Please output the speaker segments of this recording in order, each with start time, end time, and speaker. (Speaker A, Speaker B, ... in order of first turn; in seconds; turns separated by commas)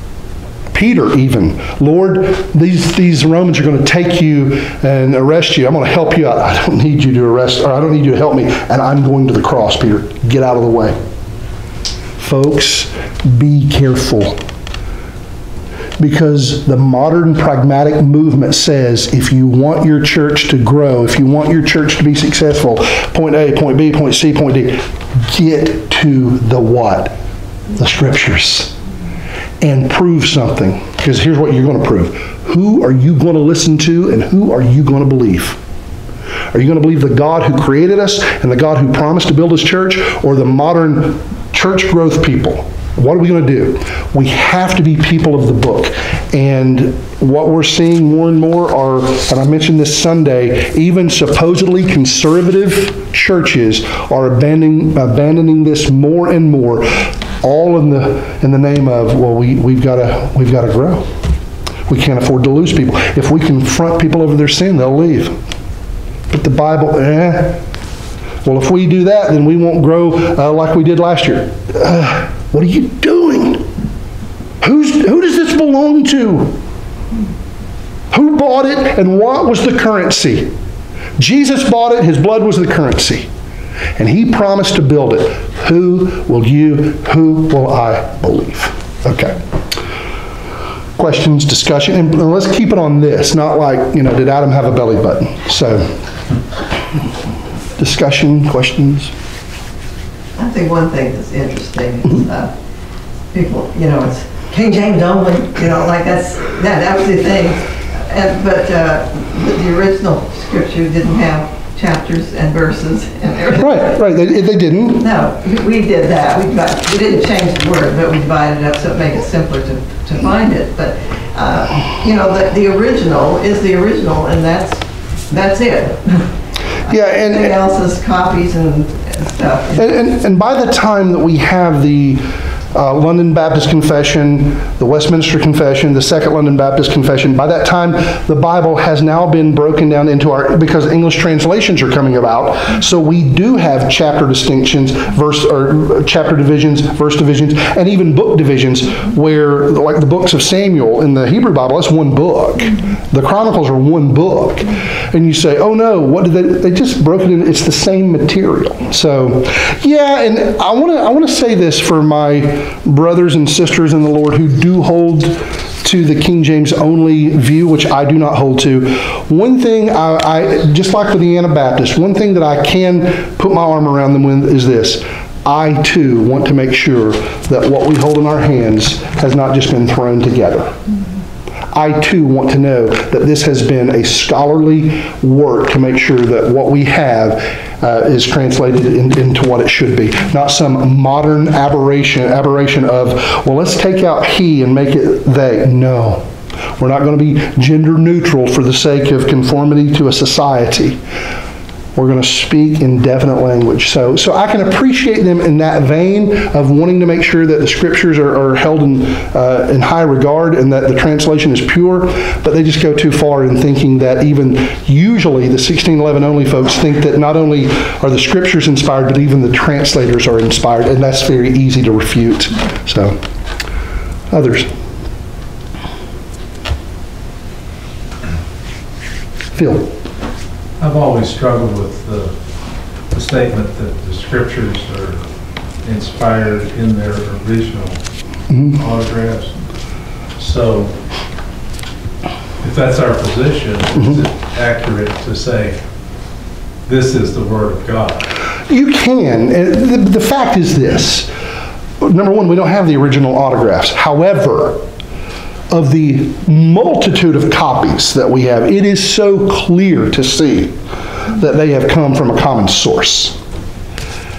Speaker A: 0.7-11.0, Speaker A: 12.2-14.4, Speaker A: 16.0-27.1, Speaker A: 27.7-28.7, Speaker A: 29.6-35.6, Speaker A: 36.5-61.1, Speaker A: 61.9-65.4, Speaker A: 66.3-67.6, Speaker A: 68.4-73.7, Speaker A: 74.6-76.6, Speaker A: 78.1-80.5, Speaker A: 81.2-83.3, Speaker A: 84.0-89.4, Speaker A: 91.0-96.0, Speaker A: 97.8-99.1, Speaker B: 100.4-102.5, Speaker B: 103.3-114.0, Speaker A: 113.5-115.1, Speaker B: 115.0-126.3, Speaker A: 126.9-127.6, Speaker B: 126.9-129.9, Speaker A: 129.8-180.7, Speaker A: 181.7-196.2, Speaker A: 196.8-201.0, Speaker A: 201.9-223.2, Speaker A: 224.3-224.7, Speaker A: 229.6-229.9, Speaker C: 230.8-232.3, Speaker C: 233.1-235.2, Speaker C: 235.8-238.0, Speaker A: 238.5-238.8, Speaker C: 238.7-239.5, Speaker C: 240.4-240.9, Speaker C: 242.6-245.8, Speaker C: 246.9-248.3, Speaker A: 248.7-251.3, Speaker A: 252.0-254.8, Speaker A: 255.7-260.8, Speaker A: 261.4-263.4